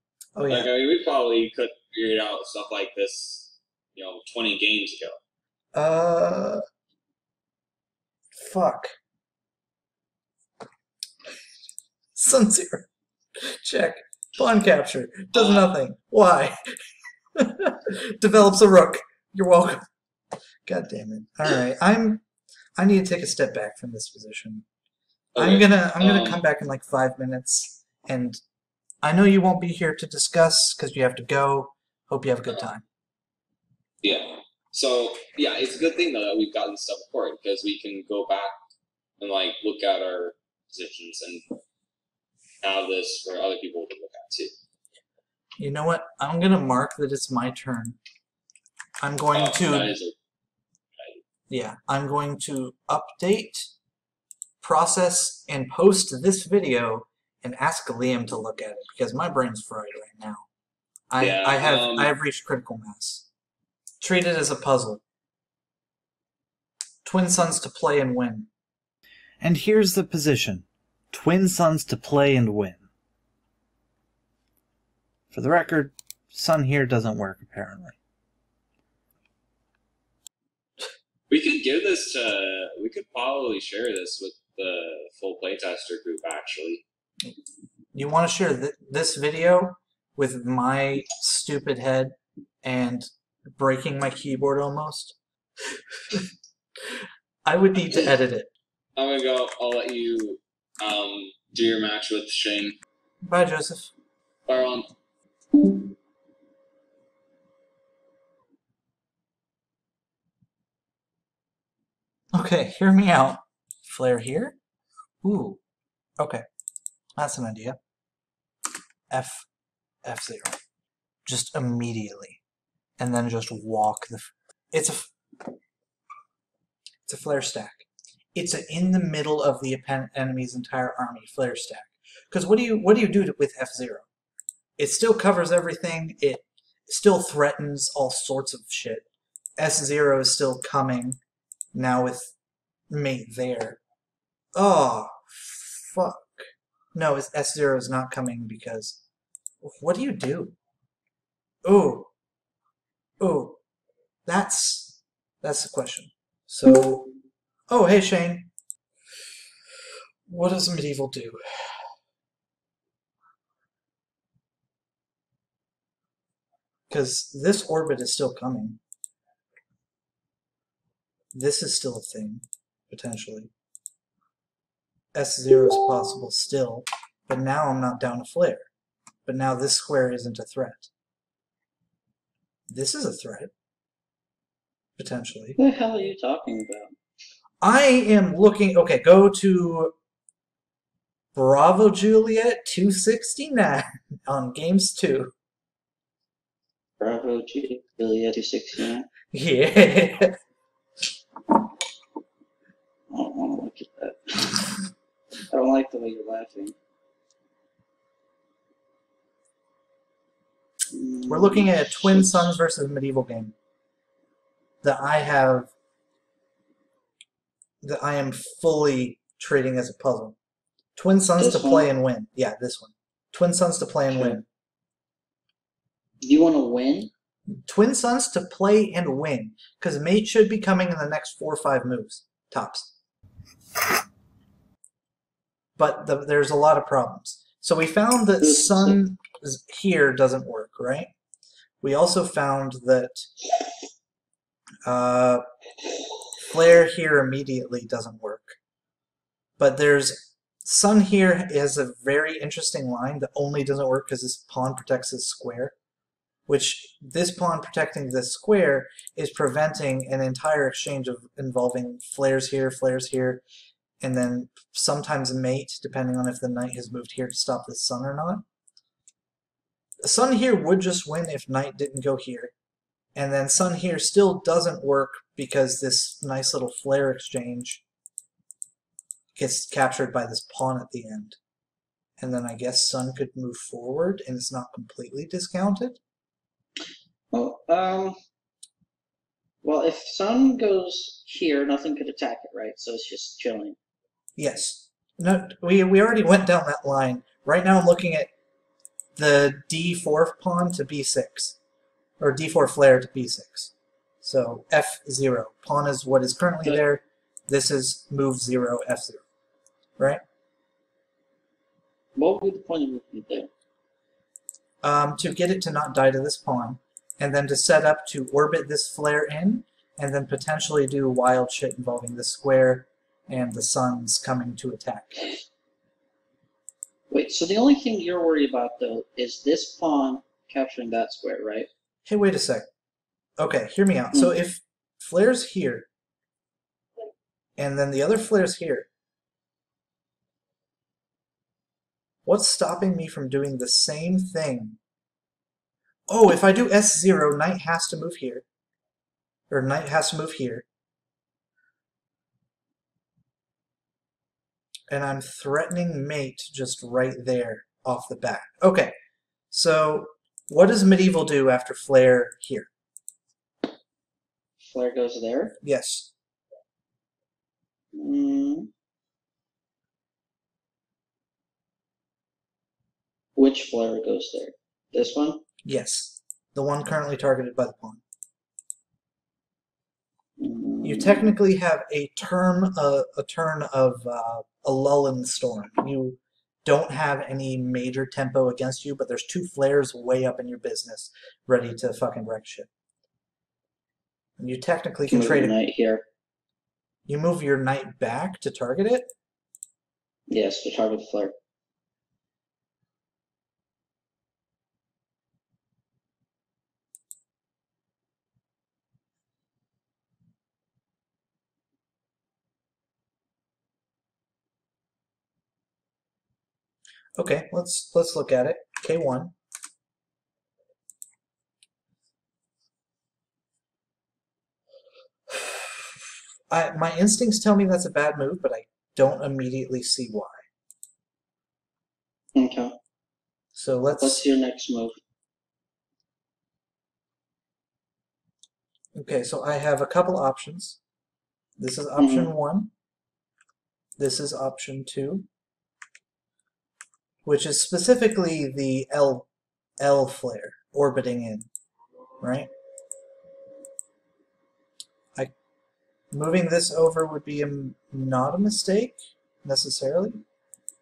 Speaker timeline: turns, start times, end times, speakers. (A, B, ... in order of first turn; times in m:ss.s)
0:00.4-0:00.7 A
0:00.5-0:05.2 B
0:05.7-0:06.6 A
0:08.4-0:08.9 A
0:12.2-0:12.9 A
0:13.4-0:16.8 A
0:15.3-0:15.7 B
0:17.3-0:19.8 A
0:20.6-0:22.2 A
0:22.8-0:24.6 A
0:25.3-0:26.4 B
0:25.4-0:28.4 A
0:29.0-0:32.8 A
0:34.0-0:38.5 B
0:39.2-0:41.4 B
0:42.6-0:44.5 B
0:45.6-0:48.0 A
0:49.0-0:49.9 A
0:49.3-0:50.1 B
0:51.0-0:51.2 B
0:51.5-0:53.7 A
0:54.6-1:00.4 A
1:01.1-1:03.2 A
1:01.2-1:02.1 B
1:04.0-1:05.0 A
1:07.0-1:08.5 A
1:09.4-1:12.8 A
1:15.3-1:18.0 A
1:21.3-1:26.8 B
1:27.9-1:35.2 A
1:37.4-1:38.5 A
1:39.0-1:42.8 B
1:43.2-1:43.9 A
1:44.4-1:44.9 B
1:52.3-1:54.6 A
1:55.2-1:55.6 A
1:56.2-1:56.4 A
1:57.2-1:57.8 A
1:59.1-1:59.5 A
2:00.0-2:00.6 A
2:01.2-2:02.4 A
2:03.0-2:05.1 A
2:07.0-2:14.0 A
2:14.8-2:19.0 A
2:19.6-2:21.2 A
2:21.7-2:22.3 A
2:22.9-2:23.8 A
2:24.5-2:29.0 A
2:29.6-2:30.6 A
2:31.6-2:32.1 A
2:33.2-2:33.6 A
2:34.2-2:37.1 A
2:37.7-2:38.5 A
2:40.3-2:41.4 A
2:46.9-2:48.8 A
2:51.3-2:53.5 A
2:55.1-2:58.7 A
2:59.2-3:00.9 A
3:02.7-3:03.5 A
3:05.0-3:05.6 A
3:05.6-3:06.9 C
3:07.6-3:09.9 A
3:11.3-3:15.3 A
3:17.0-3:19.1 C
3:19.3-3:20.4 A
3:23.1-3:24.7 C
3:25.5-3:26.7 C
3:30.9-3:32.5 C
3:31.3-3:33.5 A
3:34.8-3:35.7 A
3:37.8-3:40.4 A
3:41.0-3:44.4 A
3:41.4-3:41.9 C
3:44.1-3:44.4 C
3:46.2-3:47.1 C
3:47.5-3:52.9 A
3:55.8-4:01.1 A
3:58.4-3:59.0 C
4:01.8-4:03.3 A
4:04.8-4:05.4 A
4:06.4-4:08.6 A
4:09.6-4:15.7 A
4:16.5-4:23.4 A
4:24.0-4:28.4 A
4:30.0-4:32.5 A
4:33.2-4:37.8 A
4:39.4-4:41.4 A
4:42.2-4:46.0 A
4:47.3-4:48.2 C
4:49.6-4:53.8 C
4:54.4-4:58.3 A
4:59.2-5:01.6 A
5:02.2-5:09.2 A
5:12.1-5:13.5 C
5:14.8-5:25.3 A
5:27.1-5:31.7 C
5:32.0-5:32.6 A
5:33.4-5:35.9 A
5:37.6-5:38.9 A
5:42.2-5:44.8 A
5:46.1-5:48.4 A
5:49.5-5:50.6 A
5:54.9-5:58.9 A
5:59.5-6:02.7 A
6:04.6-6:05.6 C
6:05.6-6:06.1 A
6:07.9-6:08.7 C
6:13.4-6:15.4 C
6:15.6-6:18.0 A
6:20.4-6:21.3 C
6:20.8-6:32.7 A
6:34.4-6:35.5 A
6:35.1-6:36.0 C
6:37.1-6:39.1 A
6:40.3-6:41.3 C
6:57.2-6:59.3 A
7:05.3-7:05.6 A
7:06.5-7:10.4 A
7:12.3-7:12.8 C
7:13.5-7:14.2 A
7:14.0-7:15.0 C
7:19.0-7:20.8 A
7:21.6-7:22.7 A
7:22.0-7:22.3 C
7:24.0-7:25.2 A
7:27.2-7:29.3 A
7:29.8-7:31.5 A
7:32.2-7:32.5 A
7:36.1-7:40.2 A